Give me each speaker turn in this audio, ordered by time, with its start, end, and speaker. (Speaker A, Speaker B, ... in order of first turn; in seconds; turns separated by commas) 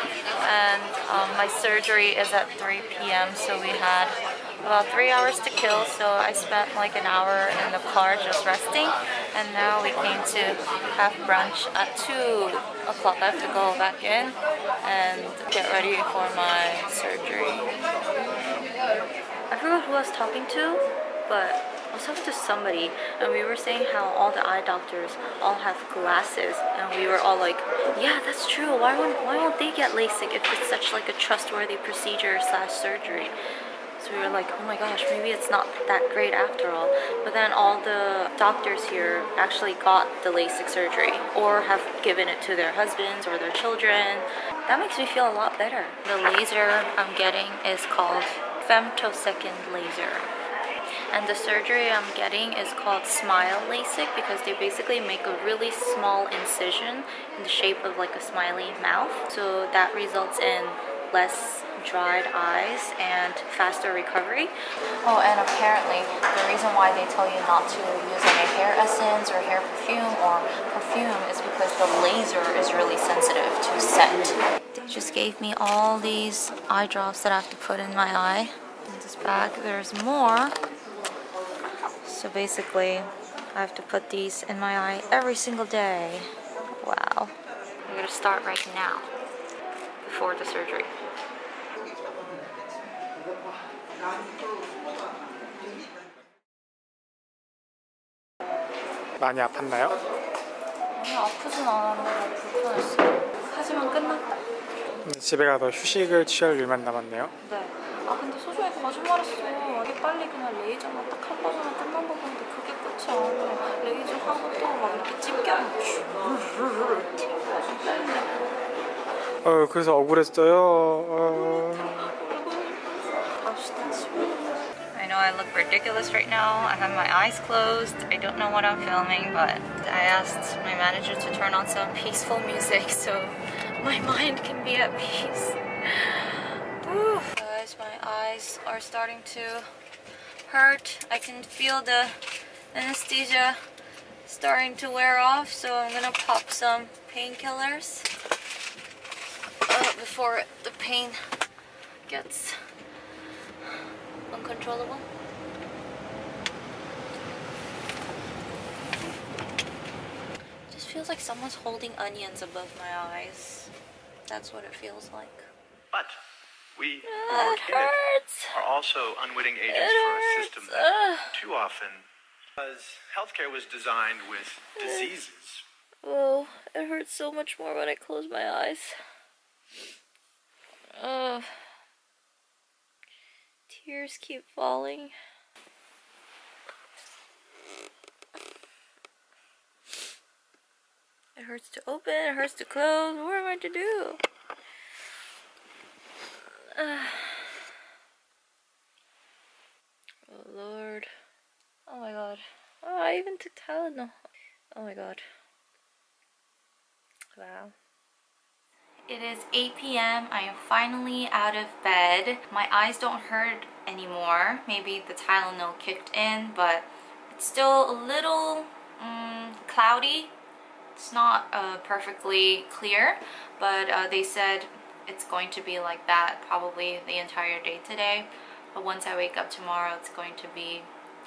Speaker A: 0.4-17.7, Speaker A: 19.5-33.3, Speaker A: 34.0-50.3, Speaker A: 51.1-80.5, Speaker A: 82.0-87.3, Speaker A: 87.8-89.1, Speaker A: 90.0-90.9, Speaker B: 99.2-100.0, Speaker A: 100.9-104.3, Speaker B: 105.0-107.3, Speaker A: 107.4-118.3, Speaker B: 119.4-122.0, Speaker A: 123.4-139.7, Speaker A: 140.5-142.1, Speaker A: 142.7-143.6, Speaker A: 144.2-148.1, Speaker A: 149.7-151.2, Speaker A: 152.1-152.6, Speaker A: 154.3-155.1, Speaker A: 160.7-163.7, Speaker A: 164.3-165.4, Speaker C: 166.8-167.9, Speaker A: 167.1-168.6, Speaker C: 168.5-172.0, Speaker A: 169.7-171.3, Speaker C: 172.6-175.6, Speaker A: 174.8-175.1, Speaker A: 176.0-179.0, Speaker A: 180.9-181.5, Speaker A: 183.7-185.1, Speaker A: 191.3-194.2, Speaker A: 196.6-197.6, Speaker A: 200.3-201.1, Speaker A: 201.9-204.2, Speaker A: 204.7-205.2, Speaker A: 207.3-207.7, Speaker A: 209.1-220.3, Speaker A: 220.9-230.9